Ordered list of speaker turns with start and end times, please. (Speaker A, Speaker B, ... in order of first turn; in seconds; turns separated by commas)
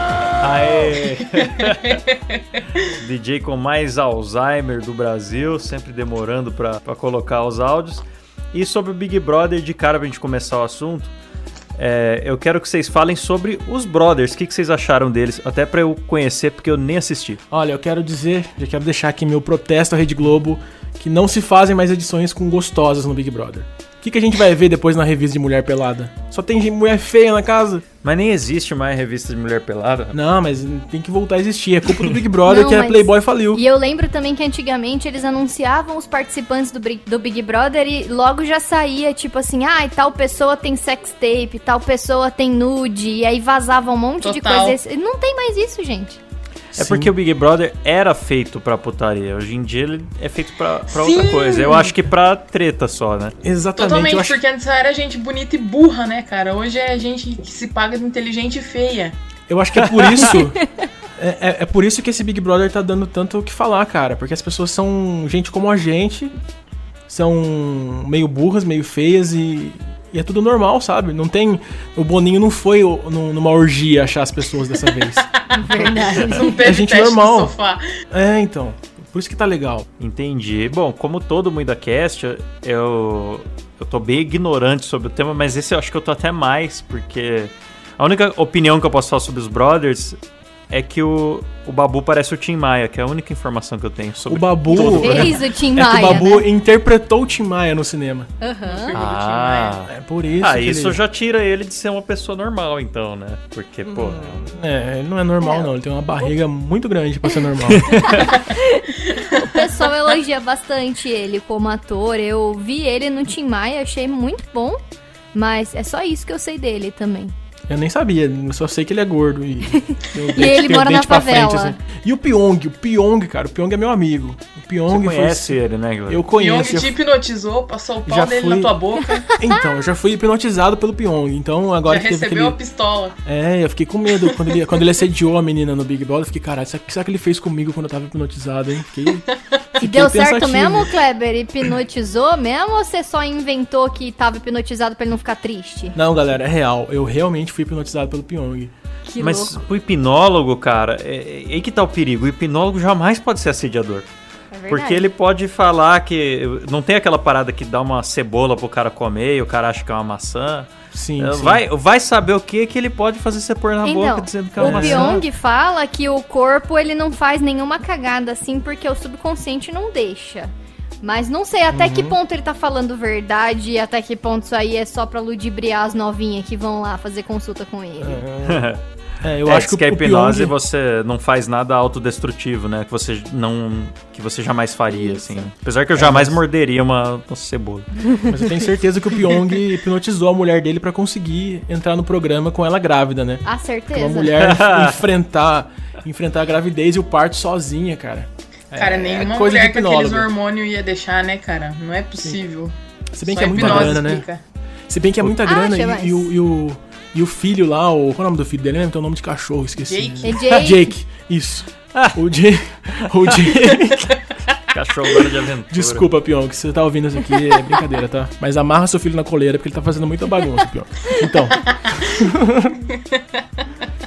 Speaker A: 0.3-2.0, Speaker B: 1.6-2.4, Speaker A: 2.8-11.1, Speaker A: 11.8-17.4, Speaker C: 17.5-27.8, Speaker A: 28.0-30.2, Speaker C: 30.1-33.6, Speaker D: 32.5-46.2, Speaker B: 44.2-44.8, Speaker A: 46.7-53.3, Speaker C: 46.8-47.1, Speaker B: 50.9-52.0, Speaker C: 53.4-54.4, Speaker B: 53.8-59.1, Speaker C: 59.5-60.6, Speaker A: 60.0-60.3, Speaker C: 61.2-66.3, Speaker C: 67.1-75.3, Speaker B: 75.2-77.8, Speaker D: 75.5-76.5, Speaker C: 76.4-77.5, Speaker C: 78.1-79.9, Speaker A: 80.0-90.2, Speaker A: 90.7-95.4, Speaker C: 94.3-98.3, Speaker D: 94.7-96.5, Speaker D: 98.4-99.0, Speaker B: 98.6-99.7, Speaker A: 98.9-104.4, Speaker C: 99.8-101.0, Speaker C: 103.8-108.0, Speaker D: 105.4-105.7, Speaker A: 107.7-108.4, Speaker D: 108.0-114.8, Speaker B: 109.2-109.6, Speaker D: 115.3-117.3, Speaker C: 117.7-127.0, Speaker D: 119.8-121.8, Speaker A: 124.9-126.3, Speaker B: 126.3-129.3, Speaker C: 128.0-128.8, Speaker C: 129.3-132.6, Speaker B: 131.8-133.2, Speaker C: 133.2-140.9, Speaker D: 139.8-146.0, Speaker C: 145.9-148.7, Speaker D: 149.1-149.6, Speaker A: 149.2-154.1, Speaker D: 154.5-155.1, Speaker A: 154.7-165.2, Speaker C: 160.9-161.6, Speaker D: 163.8-178.2, Speaker C: 164.6-165.2, Speaker C: 171.7-172.2, Speaker C: 178.0-180.6, Speaker A: 178.4-178.8, Speaker A: 179.4-187.9, Speaker D: 184.9-185.5, Speaker C: 185.9-186.4, Speaker C: 188.3-200.3, Speaker D: 193.4-194.3, Speaker A: 194.4-195.1, Speaker B: 198.7-202.7, Speaker C: 203.1-204.2, Speaker B: 203.2-204.4, Speaker A: 203.5-204.0, Speaker C: 204.9-214.2, Speaker D: 205.4-206.3, Speaker B: 209.8-210.4, Speaker D: 210.2-210.9, Speaker A: 211.9-212.2, Speaker A: 214.7-216.1, Speaker C: 215.7-222.8, Speaker B: 223.0-223.4